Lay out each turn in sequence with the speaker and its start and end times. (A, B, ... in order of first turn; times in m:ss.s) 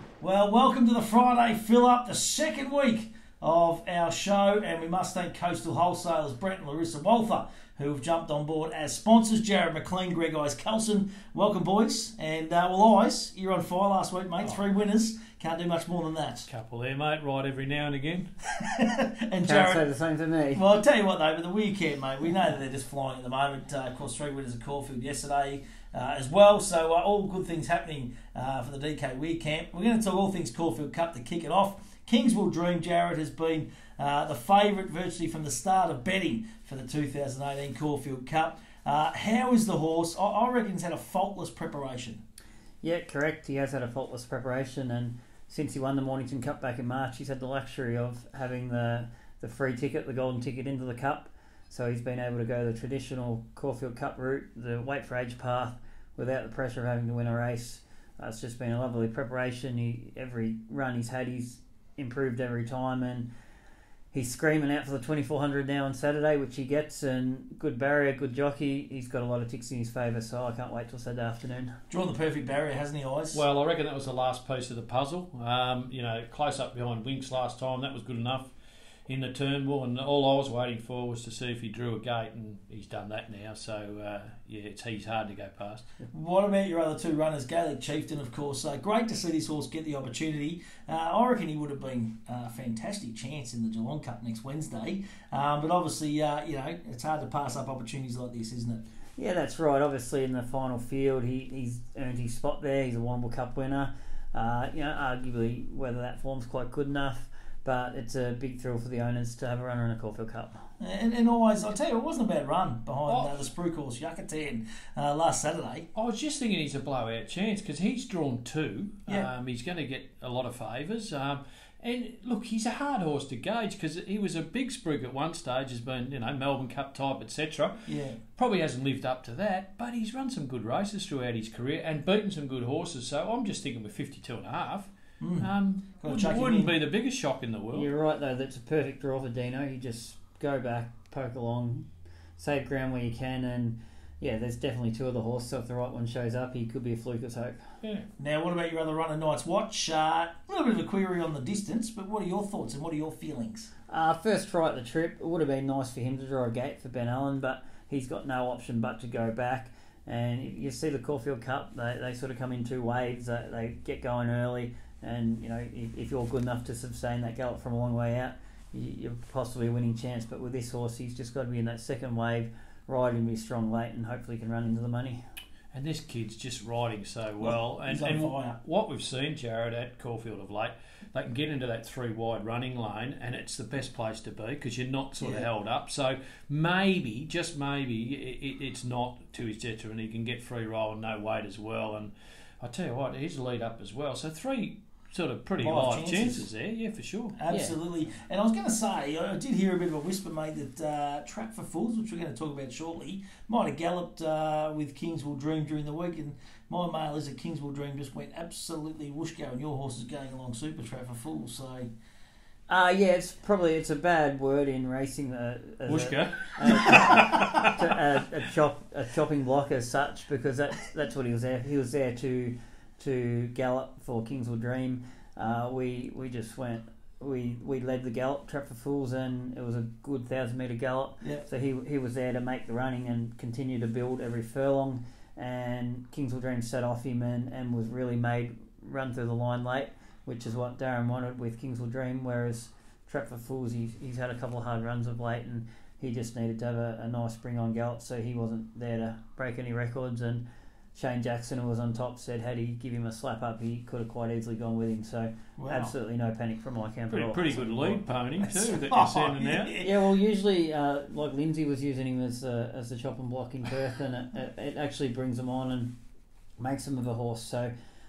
0:00.2-0:16.5 A
0:16.5-0:18.3 B
0:18.6-0:19.8 A
0:19.4-0:20.6 C
0:20.5-0:42.2 A
0:42.8-1:03.3 C
1:04.1-1:11.7 C
1:11.9-1:13.4 A
1:13.3-1:18.5 B
1:19.1-1:25.9 B
1:26.1-1:38.8 A
1:39.2-1:50.6 C
1:50.8-1:55.9 A
1:53.1-1:53.5 B
1:56.0-2:07.8 B
2:07.9-2:08.2 A
2:08.4-2:17.9 B
2:15.2-2:16.7 A
2:17.7-2:27.6 C
2:28.2-2:33.7 A
2:33.9-2:55.2 C
2:55.7-3:17.4 B
2:57.4-2:58.6 A
3:05.2-3:05.5 A
3:15.6-3:16.5 A
3:17.4-3:31.9 A
3:17.5-3:17.8 C
3:32.7-4:10.4 C
3:35.9-3:37.8 B
4:11.0-4:18.1 C
4:15.6-4:15.9 A
4:17.1-4:19.7 B
4:18.4-4:20.0 A
4:19.8-4:25.9 C
4:26.6-4:27.7 C